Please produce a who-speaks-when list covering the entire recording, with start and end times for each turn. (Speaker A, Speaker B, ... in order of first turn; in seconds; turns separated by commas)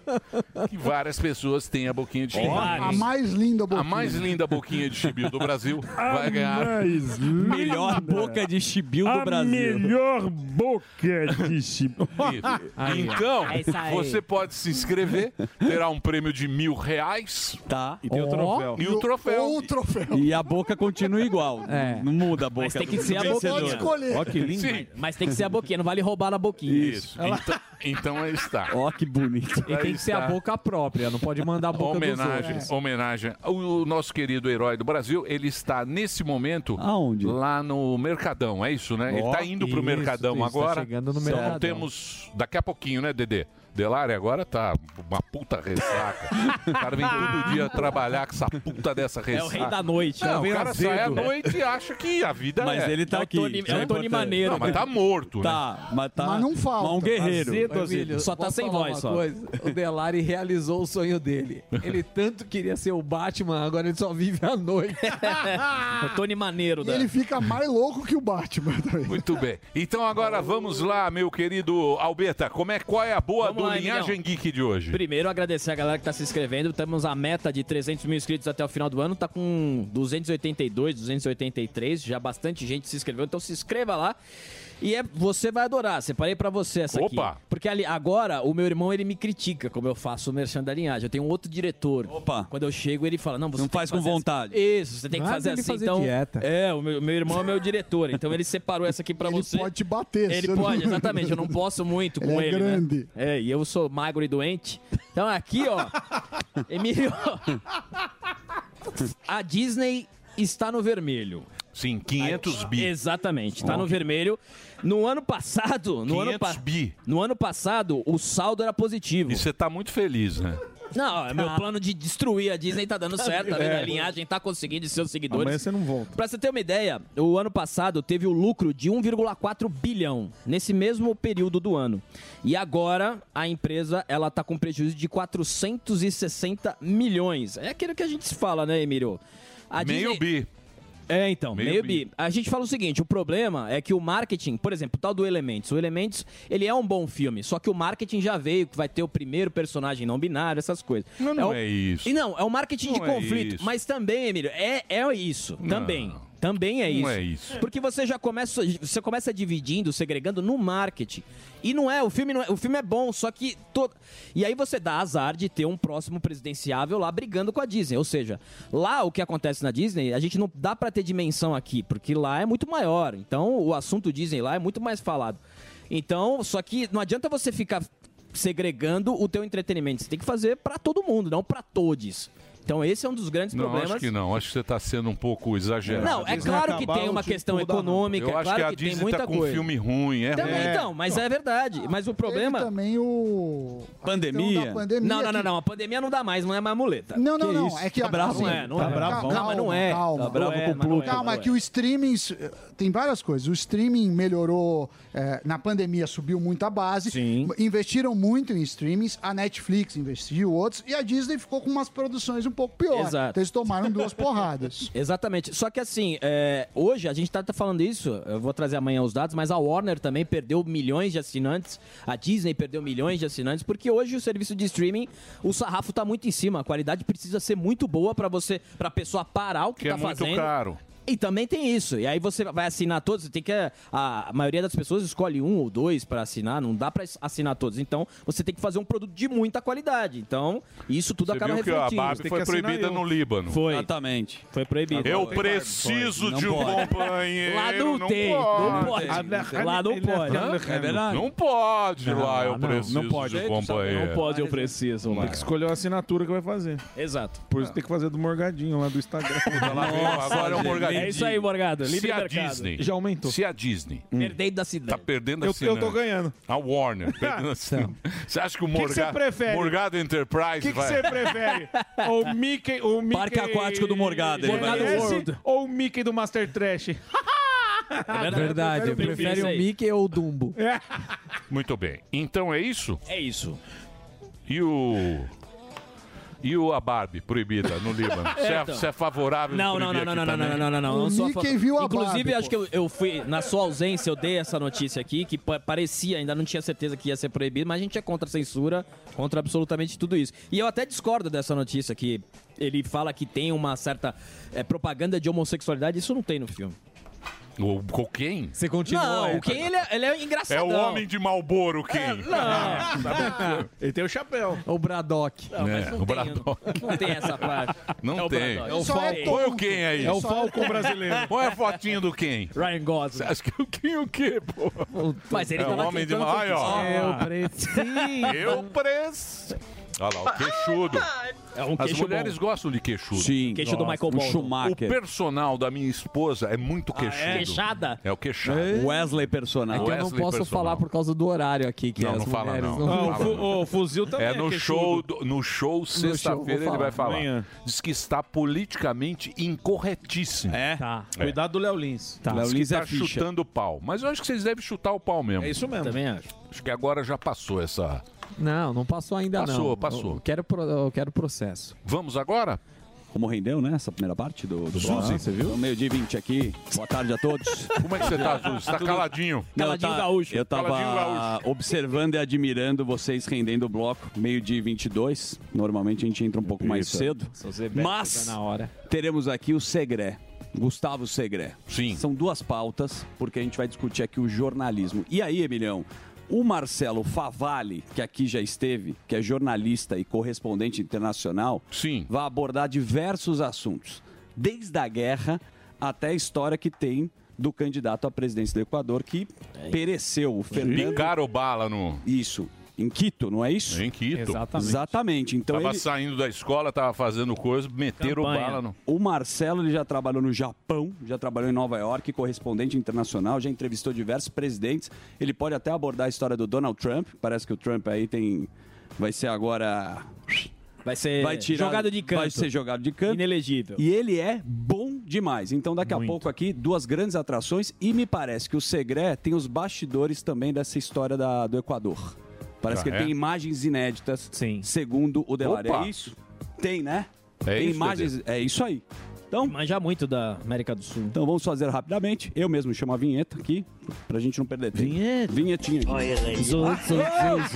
Speaker A: 0.6-3.1, Speaker B: 2.4-3.0, Speaker C: 2.4-2.7, Speaker D: 2.5-4.5, Speaker A: 3.7-7.1, Speaker E: 6.0-8.3, Speaker F: 7.4-10.0, Speaker E: 9.1-11.9, Speaker C: 12.0-12.7, Speaker A: 12.2-17.6, Speaker B: 12.8-13.3, Speaker G: 13.4-14.2, Speaker F: 17.7-18.0, Speaker C: 18.1-18.8, Speaker B: 18.1-18.8, Speaker A: 18.7-19.6, Speaker D: 18.8-20.4, Speaker F: 20.1-24.0, Speaker B: 21.6-22.1, Speaker G: 22.6-23.9, Speaker D: 23.0-24.5, Speaker C: 24.0-24.9, Speaker A: 24.5-24.9, Speaker G: 24.8-27.0, Speaker F: 26.7-27.0, Speaker A: 26.7-28.8, Speaker C: 27.2-27.6, Speaker F: 28.7-29.7, Speaker A: 29.7-30.4, Speaker B: 29.7-32.7, Speaker A: 31.7-53.0, Speaker D: 32.4-32.7, Speaker F: 36.8-37.4, Speaker F: 39.1-39.5, Speaker B: 39.5-41.9, Speaker F: 41.2-41.6, Speaker G: 49.3-50.7, Speaker C: 50.4-51.3, Speaker F: 52.6-54.8, Speaker G: 53.1-54.8, Speaker A: 54.4-55.6, Speaker F: 55.4-57.7, Speaker D: 56.2-57.4, Speaker C: 57.2-58.1, Speaker B: 57.3-65.5, Speaker G: 58.1-59.2, Speaker G: 65.1-67.1, Speaker D: 66.8-69.3, Speaker A: 69.1-75.0, Speaker G: 73.4-74.2, Speaker G: 74.9-84.2, Speaker G: 84.8-99.7, Speaker A: 86.9-87.4, Speaker F: 92.1-92.5, Speaker F: 93.6-94.6, Speaker B: 95.1-96.5, Speaker D: 99.2-101.5, Speaker G: 100.3-106.1, Speaker D: 102.2-103.1, Speaker G: 106.7-107.6, Speaker G: 109.2-111.5, Speaker A: 111.7-112.9, Speaker G: 112.2-119.5, Speaker A: 116.1-117.0, Speaker A: 119.3-120.6, Speaker G: 120.9-140.2, Speaker C: 123.4-124.1, Speaker C: 125.3-126.2, Speaker A: 139.8-140.5, Speaker G: 141.1-184.1, Speaker A: 141.5-142.0, Speaker A: 151.2-152.1, Speaker A: 152.8-153.7, Speaker A: 155.6-156.2, Speaker A: 156.9-157.6, Speaker A: 183.5-186.8, Speaker C: 185.8-188.1, Speaker G: 186.0-189.7, Speaker A: 188.1-190.8, Speaker G: 190.3-192.7, Speaker C: 190.3-191.2, Speaker D: 192.2-195.5, Speaker F: 194.0-194.9, Speaker G: 195.0-201.5, Speaker D: 197.2-214.9, Speaker F: 197.4-198.9, Speaker B: 198.8-199.2, Speaker C: 198.8-199.4, Speaker F: 200.2-201.3, Speaker G: 207.1-207.5, Speaker G: 212.9-213.4, Speaker G: 214.9-230.5, Speaker A: 229.8-230.8, Speaker G: 231.0-242.2, Speaker A: 241.3-243.6, Speaker C: 242.1-243.1, Speaker G: 243.5-243.9, Speaker F: 243.7-244.4, Speaker G: 244.5-245.7, Speaker C: 245.0-245.8, Speaker A: 245.0-249.2, Speaker F: 246.2-247.0, Speaker G: 246.6-250.5, Speaker C: 248.6-251.1, Speaker F: 248.8-249.7, Speaker A: 250.3-254.3, Speaker F: 250.6-251.3, Speaker B: 252.0-253.0, Speaker C: 252.9-253.5, Speaker G: 253.2-255.4, Speaker A: 255.1-255.5, Speaker C: 255.2-256.8, Speaker G: 257.0-257.4, Speaker C: 257.5-260.0, Speaker A: 259.5-261.3, Speaker F: 259.7-261.3, Speaker G: 259.9-262.7, Speaker A: 261.8-264.1, Speaker C: 262.8-263.4, Speaker G: 264.1-265.1, Speaker A: 264.9-271.2, Speaker C: 265.4-266.4, Speaker C: 267.1-267.5, Speaker C: 268.7-269.8, Speaker C: 270.6-277.0, Speaker G: 271.4-272.1, Speaker F: 273.1-275.1, Speaker G: 274.4-275.4, Speaker C: 277.9-279.5, Speaker G: 278.1-279.7, Speaker B: 278.1-280.6, Speaker C: 280.6-281.0, Speaker A: 281.5-283.0, Speaker G: 283.1-283.6, Speaker A: 284.5-285.3, Speaker A: 286.4-290.7, Speaker G: 288.2-288.9, Speaker G: 289.5-306.8, Speaker D: 290.8-292.6, Speaker A: 307.6-308.6, Speaker B: 308.6-309.6, Speaker G: 308.9-311.1, Speaker A: 310.5-313.6, Speaker G: 311.9-313.1, Speaker C: 312.4-314.6, Speaker B: 312.4-313.5, Speaker B: 314.6-315.5, Speaker G: 315.5-319.4, Speaker A: 315.6-317.1, Speaker A: 318.0-320.3, Speaker D: 318.7-321.1, Speaker C: 318.7-319.1, Speaker C: 320.0-321.4, Speaker A: 321.3-322.6, Speaker G: 322.6-323.3, Speaker A: 323.1-324.9, Speaker B: 324.9-325.9, Speaker G: 325.3-328.5, Speaker A: 325.6-326.9, Speaker B: 326.6-328.5, Speaker C: 326.8-328.1, Speaker A: 328.2-331.1, Speaker G: 331.5-332.4, Speaker A: 331.8-333.4, Speaker F: 333.1-335.0, Speaker G: 333.4-334.6, Speaker A: 334.6-338.9, Speaker G: 337.0-338.0, Speaker F: 338.5-339.9, Speaker B: 339.7-343.5, Speaker A: 339.7-340.9, Speaker A: 342.0-343.6, Speaker C: 342.8-345.1, Speaker A: 344.1-350.6, Speaker B: 345.9-347.0, Speaker C: 347.0-347.5, Speaker F: 350.5-350.8, Speaker B: 350.8-351.1, Speaker C: 351.2-352.2, Speaker B: 352.2-352.5, Speaker F: 352.3-353.3, Speaker A: 352.3-355.6, Speaker C: 355.4-356.0, Speaker G: 355.8-356.3, Speaker A: 356.5-358.0, Speaker B: 358.4-361.8, Speaker A: 359.4-360.2, Speaker A: 361.9-362.6, Speaker F: 363.1-369.0, Speaker A: 364.8-365.2, Speaker B: 364.8-365.6, Speaker A: 367.8-369.5, Speaker G: 368.0-368.3, Speaker G: 369.6-370.4, Speaker F: 369.6-378.4, Speaker A: 370.4-371.4, Speaker B: 377.0-378.7, Speaker F: 378.9-401.1, Speaker A: 381.7-382.0, Speaker A: 391.7-392.1, Speaker G: 400.5-400.9, Speaker A: 400.6-402.1, Speaker F: 402.1-403.8, Speaker A: 403.7-404.5, Speaker B: 404.1-404.9, Speaker F: 404.5-405.9, Speaker A: 405.5-408.8, Speaker G: 408.0-408.6, Speaker F: 408.9-420.5, Speaker G: 420.9-422.5, Speaker F: 421.2-423.2, Speaker G: 423.1-423.8, Speaker F: 423.8-439.6, Speaker B: 425.9-426.2, Speaker A: 432.7-433.1, Speaker B: 434.3-434.7, Speaker A: 435.4-435.9, Speaker A: 437.4-438.1, Speaker G: 439.4-441.2, Speaker F: 441.1-447.4, Speaker C: 444.8-445.3, Speaker G: 446.4-447.0